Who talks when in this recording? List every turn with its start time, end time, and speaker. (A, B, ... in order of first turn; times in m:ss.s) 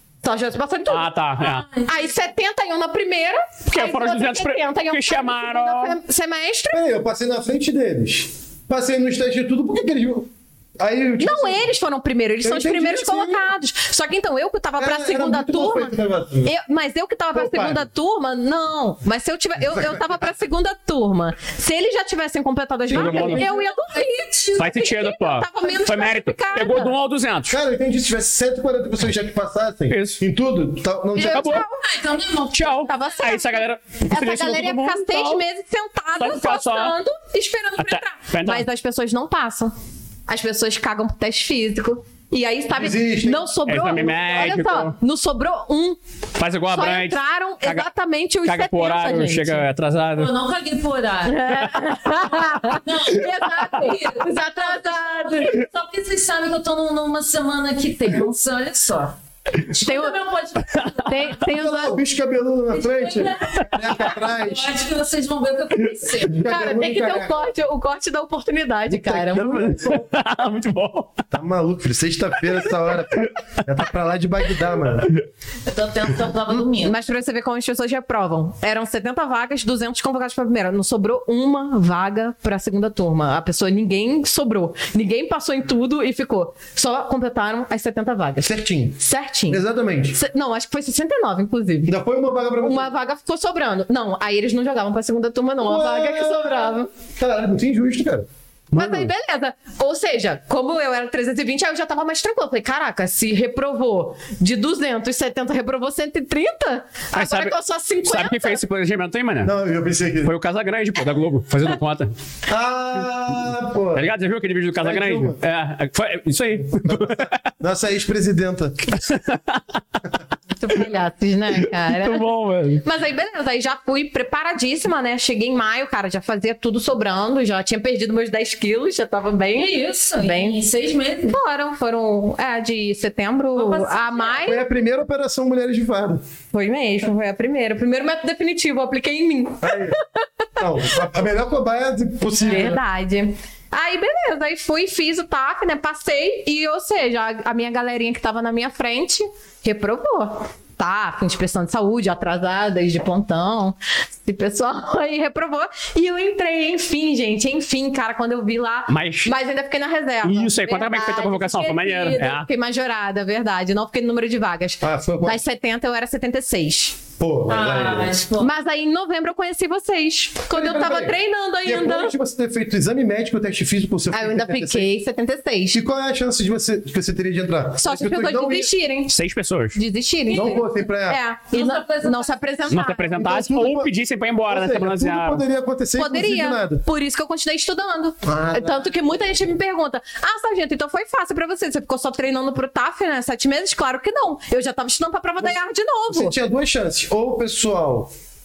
0:00.2-0:01.1 A
0:00.9-0:01.6 B
0:01.4-0:02.1 C
0:01.9-0:06.8 A
0:03.7-0:06.0 B
0:06.7-0:11.7 D
0:11.2-0:26.9 A
0:12.4-0:13.5 D
0:14.8-0:16.5 D
0:17.3-0:17.8 D
0:19.6-0:20.1 D
0:22.9-0:23.4 D
0:22.9-0:23.4 B
0:22.9-0:24.6 C
0:24.6-0:27.6 B
0:27.5-0:31.6 D
0:29.9-0:30.2 B
0:31.1-0:31.9 A
0:31.2-0:31.6 B
0:31.8-0:32.9 C
0:32.5-0:35.4 B
0:32.8-0:39.7 A
0:36.2-0:36.9 B
0:37.8-0:38.6 B
0:40.3-0:46.0 A
0:42.7-0:43.4 D
0:43.7-0:44.9 B
0:46.4-0:47.9 B
0:46.7-0:49.6 A
0:48.4-0:50.3 B
0:50.2-1:01.4 C
0:51.3-0:55.6 A
0:59.8-1:00.2 A
1:01.0-1:02.0 A
1:01.4-1:04.7 D
1:02.7-1:06.4 C
1:06.1-1:07.5 D
1:06.4-1:09.8 A
1:08.9-1:10.1 D
1:09.3-1:11.2 B
1:11.3-1:15.2 D
1:15.6-1:17.0 C
1:16.5-1:29.6 A
1:28.4-1:30.2 D
1:30.1-1:31.9 A
1:31.9-1:32.9 D
1:32.6-1:36.9 A
1:35.6-1:38.3 D
1:38.7-1:39.0 B
1:38.7-1:48.6 A
1:47.1-1:49.5 B
1:49.4-1:50.3 D
1:50.2-1:52.1 B
1:52.5-1:54.1 D
1:53.9-1:57.4 B
1:54.8-1:55.4 D
1:56.7-1:58.9 D
1:58.9-1:59.6 B
2:00.5-2:02.2 A
2:01.6-2:02.8 B
2:02.8-2:10.6 A
2:09.5-2:11.4 C
2:11.3-2:14.6 A
2:13.5-2:14.4 C
2:14.4-2:16.2 D
2:16.5-2:21.0 A
2:19.6-2:20.0 D
2:20.6-2:22.8 D
2:22.4-2:47.0 A
2:38.9-2:39.3 B
2:40.2-2:42.4 B
2:44.8-2:45.4 D
2:47.2-2:48.2 D
2:47.5-2:48.5 C
2:48.4-2:52.1 A
2:50.5-2:54.9 D
2:54.1-2:55.8 A
2:55.7-2:58.7 D
2:57.8-2:59.1 A
2:59.1-2:59.8 B
2:59.7-3:03.2 A
3:00.3-3:00.6 C
3:00.3-3:01.2 D
3:01.5-3:02.4 C
3:02.7-3:05.4 B
3:03.1-3:03.9 D
3:04.5-3:06.8 D
3:06.0-3:16.3 A
3:08.2-3:09.1 D
3:16.1-3:18.1 D